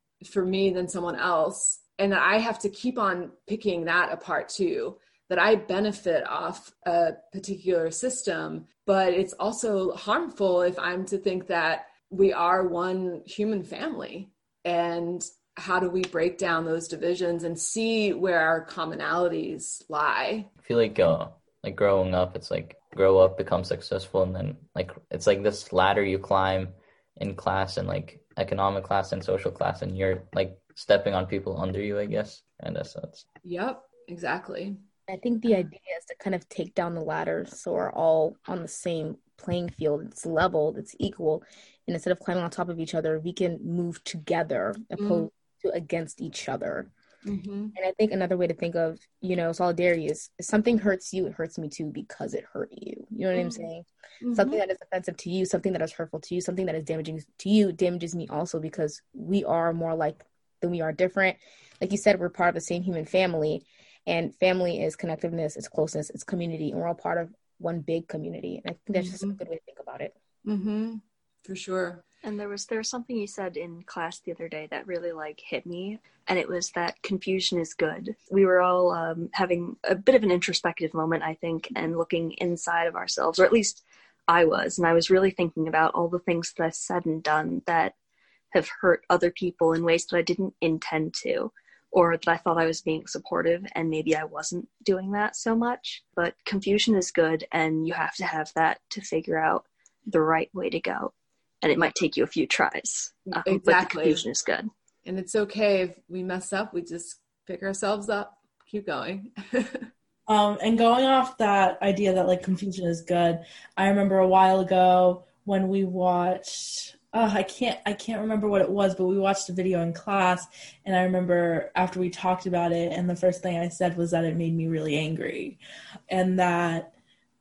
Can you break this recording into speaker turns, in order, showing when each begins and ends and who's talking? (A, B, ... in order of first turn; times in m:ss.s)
0:00.2-0:20.5 A
0:20.6-0:33.2 B
0:33.4-0:34.8 A
0:35.1-0:46.9 C
0:45.0-0:45.3 A
0:47.2-0:47.7 A
0:47.7-1:10.1 C
0:53.3-0:53.6 A
0:54.2-0:54.6 A
1:08.9-1:09.4 A
1:10.4-1:12.0 A
1:12.2-1:27.9 D
1:28.5-1:44.7 D
1:43.3-1:44.2 A
1:45.0-1:49.9 A
1:50.3-2:05.6 E
2:06.1-2:06.9 E